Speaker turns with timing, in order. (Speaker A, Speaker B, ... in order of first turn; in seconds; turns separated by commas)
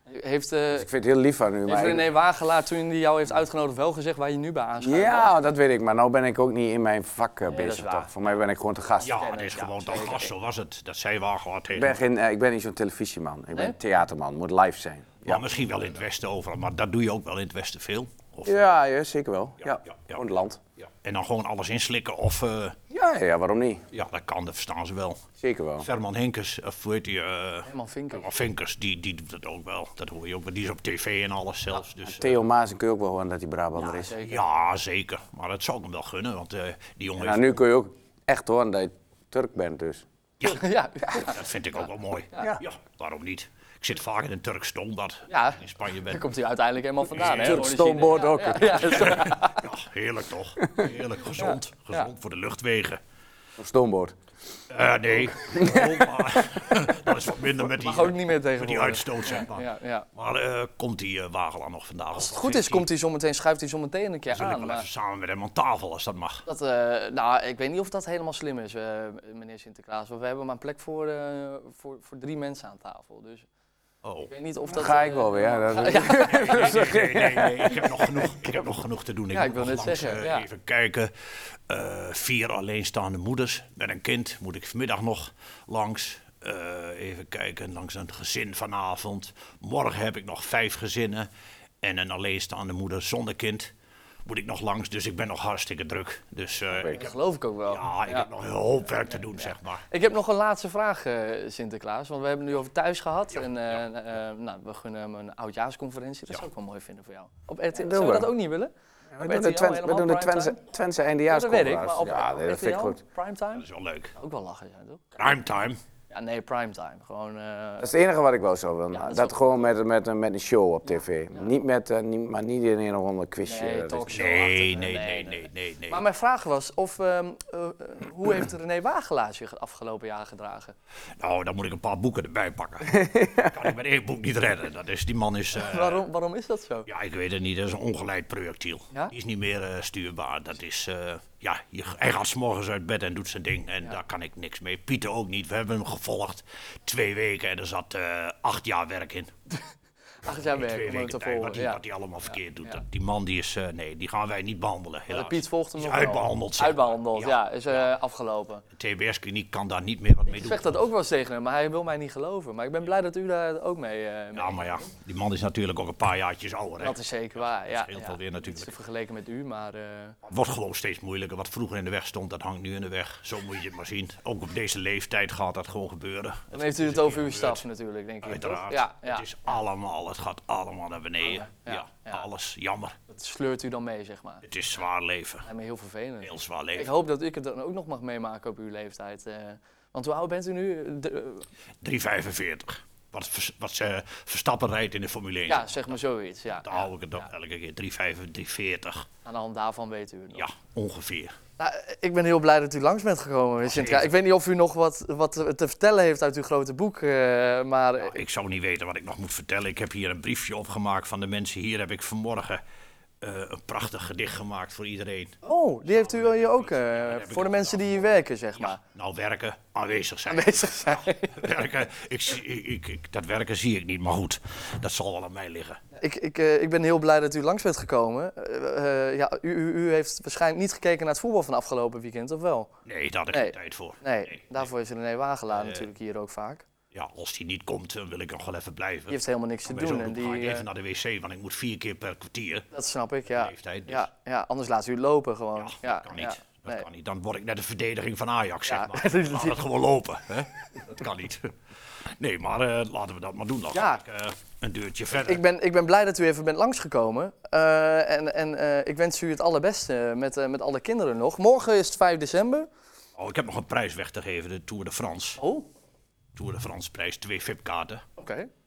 Speaker A: 0.1-0.9, Speaker B: 0.7-2.1, Speaker A: 1.7-5.3, Speaker B: 4.8-9.2, Speaker A: 7.5-8.1, Speaker C: 9.0-12.0, Speaker A: 9.0-10.3, Speaker B: 11.7-15.4, Speaker C: 15.2-18.7, Speaker B: 18.4-20.6, Speaker C: 19.6-20.2, Speaker C: 20.8-22.8, Speaker B: 22.9-23.9, Speaker C: 23.9-25.2, Speaker B: 25.4-25.9, Speaker C: 25.8-32.4, Speaker A: 27.6-28.3, Speaker B: 32.0-34.1, Speaker A: 33.8-34.4, Speaker C: 34.2-37.6, Speaker B: 37.2-40.0, Speaker C: 40.4-40.6, Speaker A: 40.4-41.4, Speaker C: 41.2-46.2, Speaker A: 45.3-49.6, Speaker C: 47.1-47.7, Speaker B: 47.3-49.1, Speaker C: 48.6-53.0, Speaker B: 50.6-50.9, Speaker A: 51.4-52.1, Speaker B: 53.6-54.1, Speaker C: 54.7-62.9, Speaker B: 55.5-56.3, Speaker A: 57.7-60.1, Speaker A: 62.1-64.9, Speaker C: 64.3-66.4, Speaker A: 66.5-73.5, Speaker C: 74.0-74.3, Speaker A: 74.2-76.8, Speaker B: 74.7-78.6, Speaker C: 76.0-81.1, Speaker A: 79.3-80.4, Speaker C: 81.7-91.3, Speaker C: 91.8-93.7, Speaker C: 94.2-97.1, Speaker B: 96.7-97.0, Speaker A: 96.9-98.3, Speaker C: 97.7-99.8, Speaker A: 99.3-110.6, Speaker B: 107.8-108.3, Speaker B: 109.1-113.0, Speaker A: 111.3-115.2, Speaker C: 113.5-114.1, Speaker C: 115.2-115.8, Speaker A: 116.1-117.9, Speaker B: 117.8-124.4, Speaker A: 118.9-119.7, Speaker A: 123.5-130.7, Speaker C: 124.1-126.0, Speaker C: 131.2-136.0, Speaker B: 132.9-133.6, Speaker A: 135.5-136.9, Speaker C: 136.9-149.3, Speaker A: 150.2-152.8, Speaker C: 150.3-157.9, Speaker A: 155.1-158.6, Speaker C: 158.7-160.8, Speaker A: 160.3-164.9, Speaker C: 164.3-168.7, Speaker A: 166.8-170.2, Speaker C: 170.2-177.6, Speaker A: 176.5-179.5, Speaker C: 178.2-182.9, Speaker A: 181.2-182.2, Speaker A: 183.1-184.4, Speaker C: 184.4-185.5, Speaker A: 185.4-191.4, Speaker C: 186.2-186.9, Speaker C: 191.8-195.7, Speaker A: 195.4-197.2, Speaker C: 196.6-199.1, Speaker A: 199.2-200.5, Speaker C: 200.3-201.3, Speaker A: 201.6-208.2, Speaker C: 203.6-204.1, Speaker C: 208.1-212.6, Speaker C: 213.2-225.8, Speaker A: 215.4-218.8, Speaker A: 220.3-221.6, Speaker A: 225.9-232.7, Speaker C: 232.8-234.7, Speaker A: 233.3-236.6, Speaker C: 235.5-235.9, Speaker C: 236.9-242.7, Speaker A: 239.1-240.7, Speaker A: 242.7-246.8, Speaker C: 243.3-244.1, Speaker C: 245.6-251.5, Speaker A: 248.6-249.6, Speaker C: 252.1-255.4, Speaker A: 253.7-254.0, Speaker A: 255.2-262.7, Speaker C: 263.2-265.4, Speaker A: 265.4-265.7, Speaker C: 266.3-268.0, Speaker A: 268.2-268.5